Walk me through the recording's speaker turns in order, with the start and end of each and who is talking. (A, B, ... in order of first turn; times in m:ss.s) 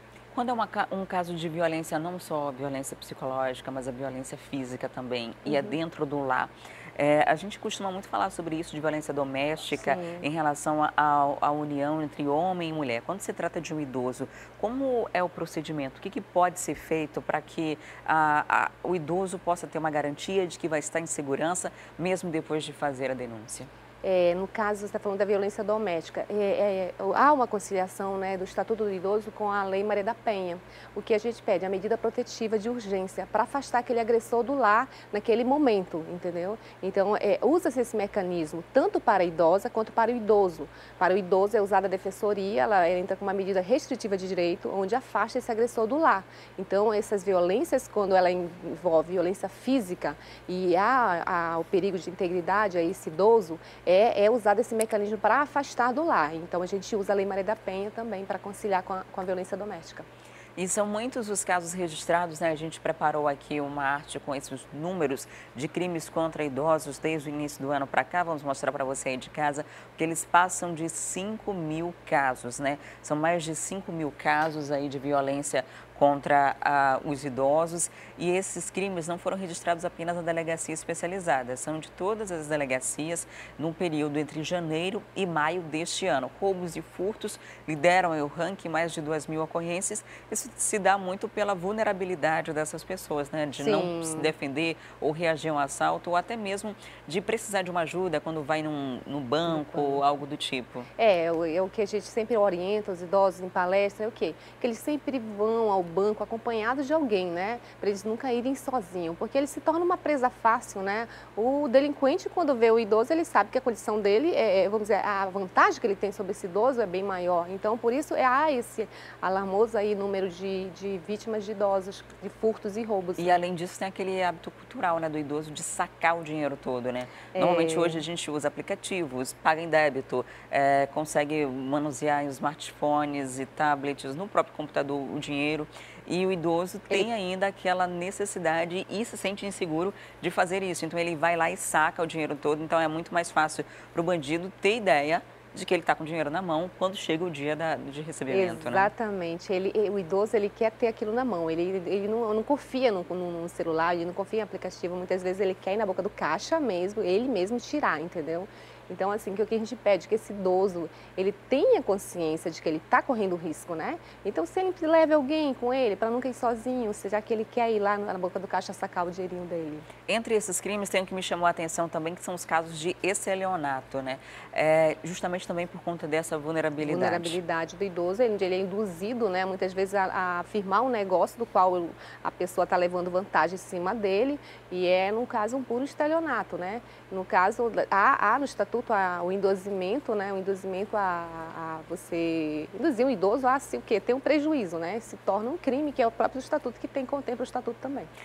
0:00.3-0:23.7 A
0:05.4-0:05.8 B
0:09.8-0:10.2 B
0:24.0-1:00.1 B
1:00.6-1:40.9 A
1:33.6-1:34.3 B
1:39.5-1:40.0 B
1:41.0-2:03.4 B
2:03.2-2:28.9 A
2:07.3-2:08.0 B
2:28.3-2:49.9 B
2:50.1-2:57.4 A
2:56.8-3:18.1 B